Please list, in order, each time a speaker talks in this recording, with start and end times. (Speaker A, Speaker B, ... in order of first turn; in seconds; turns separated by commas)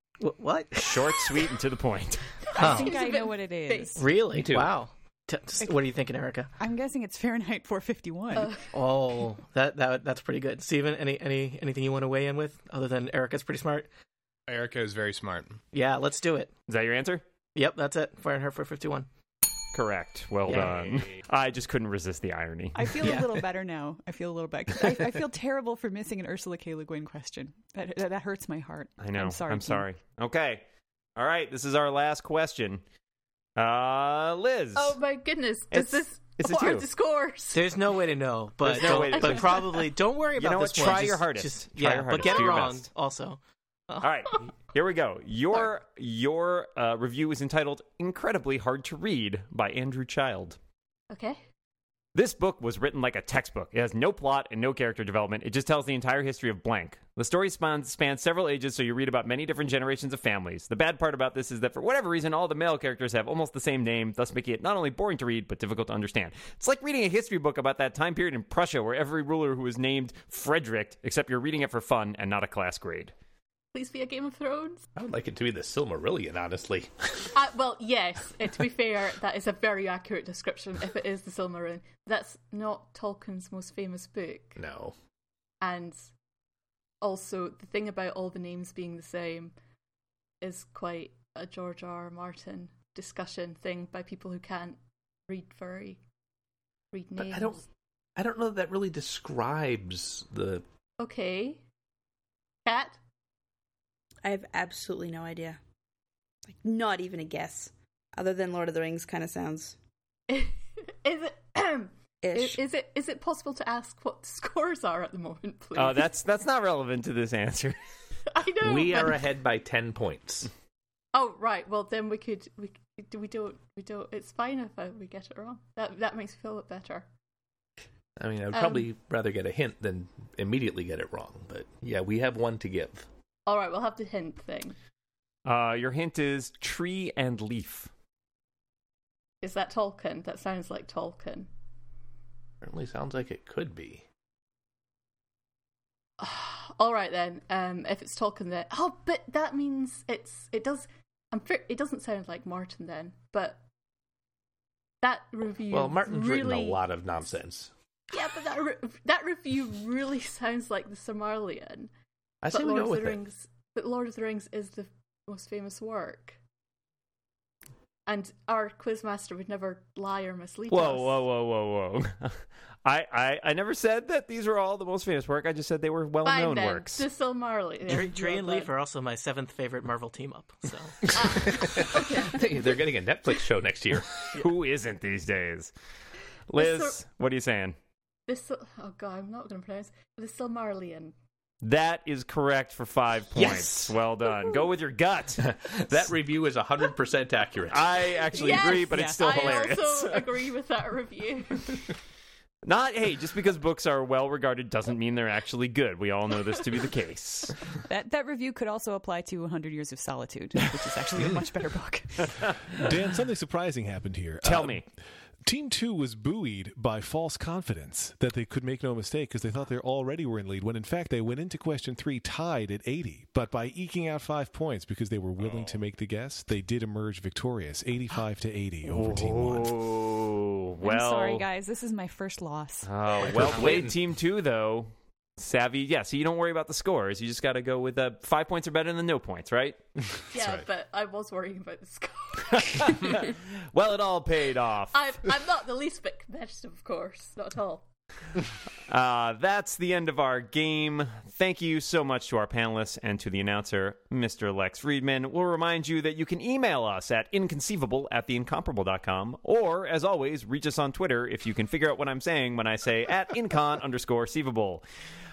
Speaker A: 0.2-1.5, Speaker B: 0.8-2.2, Speaker C: 2.5-4.0, Speaker A: 2.5-3.0, Speaker D: 2.5-4.0, Speaker A: 4.0-6.5, Speaker E: 4.3-4.8, Speaker D: 6.6-8.6, Speaker A: 8.7-13.9, Speaker F: 14.5-15.6, Speaker A: 15.7-16.5, Speaker B: 16.7-17.2, Speaker A: 17.5-19.1, Speaker B: 19.7-23.1, Speaker F: 20.5-21.2, Speaker D: 22.7-29.9, Speaker A: 23.0-23.4, Speaker B: 29.0-30.6, Speaker B: 31.1-32.8, Speaker B: 33.6-35.0, Speaker C: 34.7-37.7, Speaker B: 35.7-36.9, Speaker A: 37.5-44.1, Speaker B: 38.6-42.9, Speaker C: 38.9-39.9, Speaker B: 44.0-50.6, Speaker C: 51.1-51.4, Speaker B: 52.1-73.1, Speaker C: 73.7-74.8, Speaker E: 75.0-77.3, Speaker C: 77.3-84.6, Speaker E: 84.6-85.0, Speaker C: 85.6-86.1, Speaker C: 87.0-89.5, Speaker C: 90.4-96.0, Speaker C: 96.9-97.6, Speaker E: 97.2-97.6, Speaker E: 98.2-100.6, Speaker C: 101.0-101.6, Speaker C: 102.7-103.0, Speaker G: 104.2-105.6, Speaker G: 106.5-109.8, Speaker C: 110.3-116.1, Speaker G: 112.2-112.6, Speaker B: 115.8-117.8, Speaker C: 118.3-119.3, Speaker E: 118.6-120.5, Speaker C: 121.1-127.1, Speaker E: 128.2-133.1, Speaker C: 128.5-128.9, Speaker C: 133.4-134.8, Speaker B: 135.4-137.9, Speaker C: 139.4-141.5, Speaker E: 142.6-144.0, Speaker C: 146.2-153.6, Speaker C: 155.0-156.8, Speaker E: 155.7-157.7, Speaker C: 158.1-161.9, Speaker E: 162.4-163.2, Speaker C: 162.5-166.4, Speaker C: 168.1-171.2, Speaker B: 170.7-177.1, Speaker C: 176.2-178.7, Speaker A: 177.8-181.2, Speaker C: 181.1-182.7, Speaker E: 181.6-184.1, Speaker B: 184.3-185.7, Speaker B: 186.5-187.8, Speaker C: 186.6-187.0, Speaker C: 188.3-191.1, Speaker B: 191.6-195.6, Speaker E: 193.4-193.9, Speaker E: 195.4-198.2, Speaker B: 197.7-200.3, Speaker C: 198.3-201.8, Speaker D: 198.8-199.5, Speaker B: 202.6-207.6, Speaker D: 207.8-212.3, Speaker B: 212.2-212.6, Speaker H: 212.8-214.8, Speaker B: 214.4-214.8, Speaker H: 215.4-229.8, Speaker F: 225.4-225.8, Speaker B: 228.8-231.4, Speaker D: 230.8-232.9, Speaker B: 232.8-240.3, Speaker E: 233.2-233.9, Speaker C: 240.3-243.3, Speaker B: 242.6-245.1, Speaker C: 244.9-247.9, Speaker B: 248.9-264.8